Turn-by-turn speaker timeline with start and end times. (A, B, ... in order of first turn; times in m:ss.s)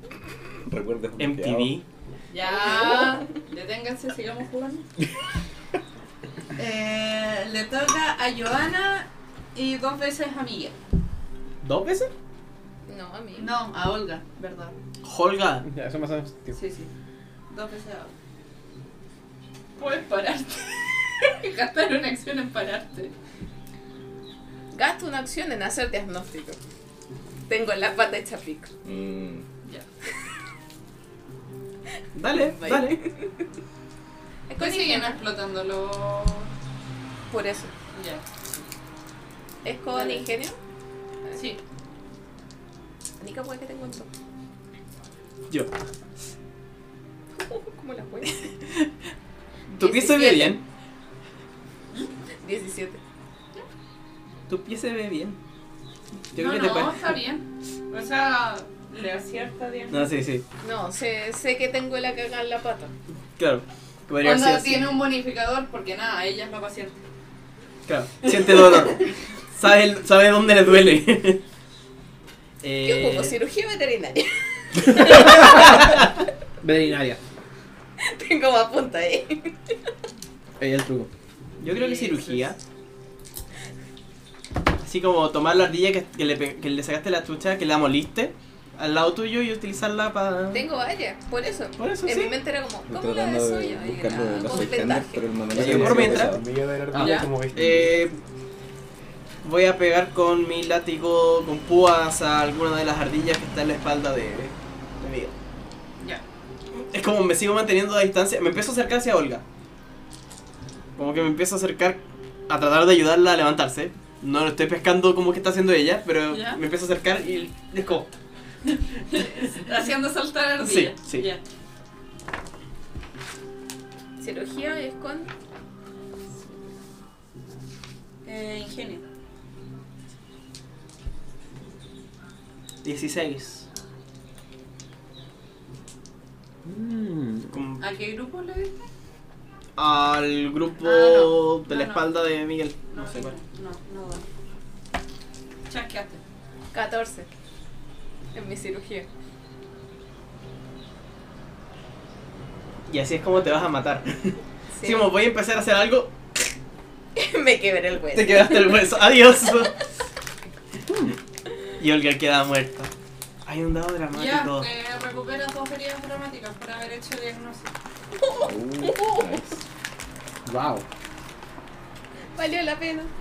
0:00.6-0:01.8 A
0:01.2-0:01.8 B
0:02.3-0:04.8 C
0:02.7-0:03.1 D
0:06.6-0:10.8 C
0:11.6-0:12.1 B
0:12.9-0:13.6 D
0:13.4-0:14.7 C
0:15.0-0:15.6 B
0:15.6-0:16.6 E
0:16.5-0:16.9 C
0:17.5-0:18.1 C
0:19.8-0:23.1 C
0:24.7-0:26.6 D
0:27.5-0:28.7 D
0:28.8-0:29.4 A
0:32.1-0:33.0 B
0:32.3-0:33.3 D
0:34.5-0:35.2 D
0:34.6-0:36.5 C
0:37.3-0:37.7 D
0:37.9-0:38.6 C
0:39.6-0:40.6 D
0:39.9-0:40.2 C
0:41.3-0:41.6 C
0:43.2-0:44.1 D
0:47.4-0:48.5 D
0:49.7-0:50.6 B
0:49.8-0:50.6 D
0:52.4-0:53.0 D
0:54.5-0:55.4 B
0:56.3-0:57.1 B
0:56.4-1:00.1 C
0:59.9-1:00.4 B
1:00.6-1:02.9 D
1:03.4-1:04.9 B
1:04.2-1:07.0 C
1:07.8-1:11.4 B
1:12.6-1:13.4 B
1:12.8-1:15.4 D
1:15.4-1:15.7 E
1:16.6-1:17.2 E
1:18.0-1:19.5 D
1:20.6-1:21.1 E
1:21.6-1:22.6 B
1:21.7-1:22.4 C
1:24.8-1:30.6 B
1:30.5-1:35.3 D
1:31.8-1:32.4 B
1:32.9-1:36.4 A
1:35.5-1:36.4 B
1:35.6-1:38.1 F
1:36.9-1:37.2 E
1:37.0-1:37.3 C
1:37.5-1:38.1 B
1:39.4-1:45.3 B
1:46.9-1:49.4 B
1:51.0-1:58.1 B
1:56.3-1:56.6 C
1:59.1-2:01.4 C
2:00.6-2:01.3 B
2:04.2-2:05.3 D
2:08.2-2:09.0 C
2:12.8-2:13.6 B
2:16.6-2:17.6 E
2:17.5-2:17.8 B
2:17.8-2:18.8 C
2:19.8-2:23.3 B
2:20.8-2:22.1 C
2:22.9-2:24.2 C
2:25.7-2:26.2 C
2:26.7-2:27.3 D
2:28.3-2:29.1 D
2:32.9-2:36.1 B
2:34.8-2:35.1 D
2:37.2-2:38.9 D
2:38.1-2:39.7 B
2:40.9-2:41.1 E
2:41.8-2:42.9 B
2:43.4-2:44.7 B
2:44.1-2:47.7 C
2:48.2-2:49.4 D
2:48.4-2:49.6 A
2:50.4-2:50.8 E
2:52.4-2:53.1 D